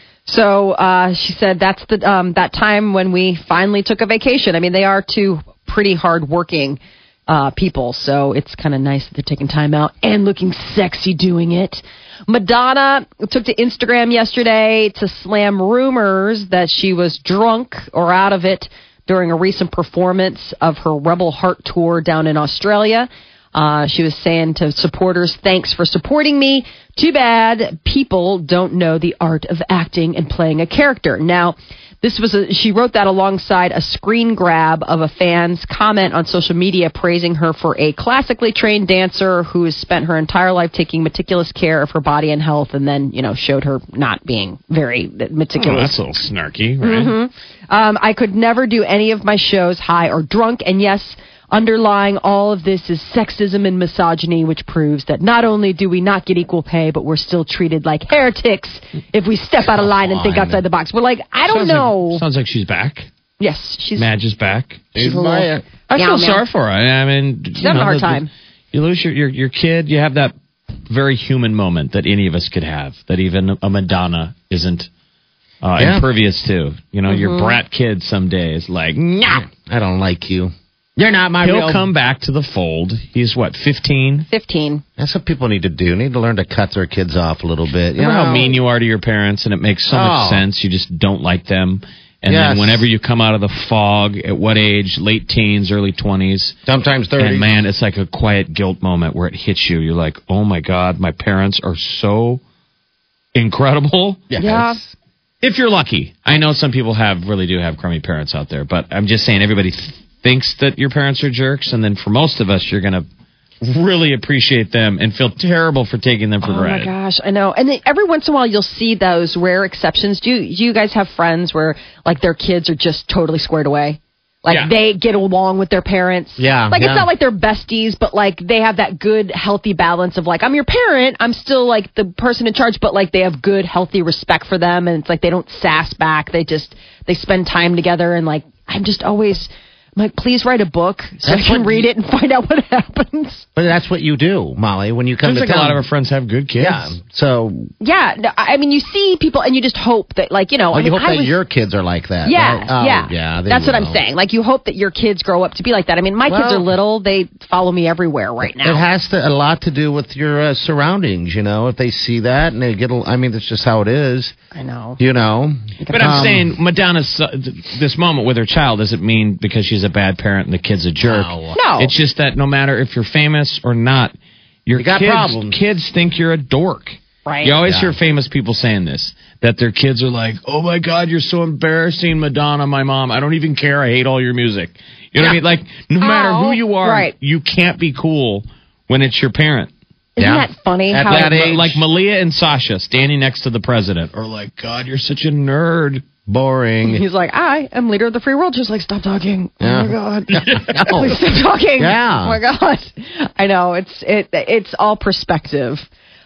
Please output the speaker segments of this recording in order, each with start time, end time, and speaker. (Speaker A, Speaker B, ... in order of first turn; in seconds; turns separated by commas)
Speaker A: 0.2-45.9, Speaker B: 45.6-47.1, Speaker A: 46.8-62.2, Speaker C: 59.6-60.6, Speaker B: 61.5-63.1, Speaker A: 63.4-64.1, Speaker B: 64.0-64.9, Speaker C: 64.9-65.6, Speaker A: 65.0-66.4, Speaker B: 65.9-70.3, Speaker A: 67.6-68.3, Speaker B: 70.9-74.9, Speaker B: 75.6-79.1, Speaker C: 75.8-76.0, Speaker A: 77.1-77.6, Speaker C: 79.0-81.9, Speaker B: 81.4-84.3, Speaker A: 84.3-84.8, Speaker C: 85.0-88.5, Speaker B: 88.0-96.5, Speaker C: 89.9-90.4, Speaker C: 92.3-92.9, Speaker C: 96.7-97.5, Speaker B: 97.2-102.4, Speaker B: 103.3-104.3, Speaker C: 104.3-104.9, Speaker A: 104.4-104.8, Speaker B: 105.4-113.0, Speaker B: 113.6-116.9, Speaker A: 116.4-143.4, Speaker C: 126.4-127.1, Speaker C: 141.2-141.9, Speaker C: 143.6-145.8, Speaker B: 145.2-146.9, Speaker C: 146.6-147.7, Speaker A: 147.8-151.4, Speaker C: 150.7-154.0, Speaker A: 152.2-158.8, Speaker C: 156.2-156.7, Speaker C: 158.6-164.3, Speaker A: 164.5-165.0, Speaker C: 165.0-166.5, Speaker A: 165.8-166.4, Speaker B: 165.9-174.1, Speaker C: 171.0-171.5, Speaker A: 171.5-171.9, Speaker B: 174.7-189.7, Speaker C: 174.8-175.6, Speaker A: 177.2-177.5, Speaker C: 177.6-177.9, Speaker A: 186.0-187.1, Speaker A: 190.2-191.4, Speaker C: 190.2-191.8, Speaker B: 191.1-196.0, Speaker C: 196.2-197.0, Speaker A: 196.8-205.9, Speaker C: 199.6-202.4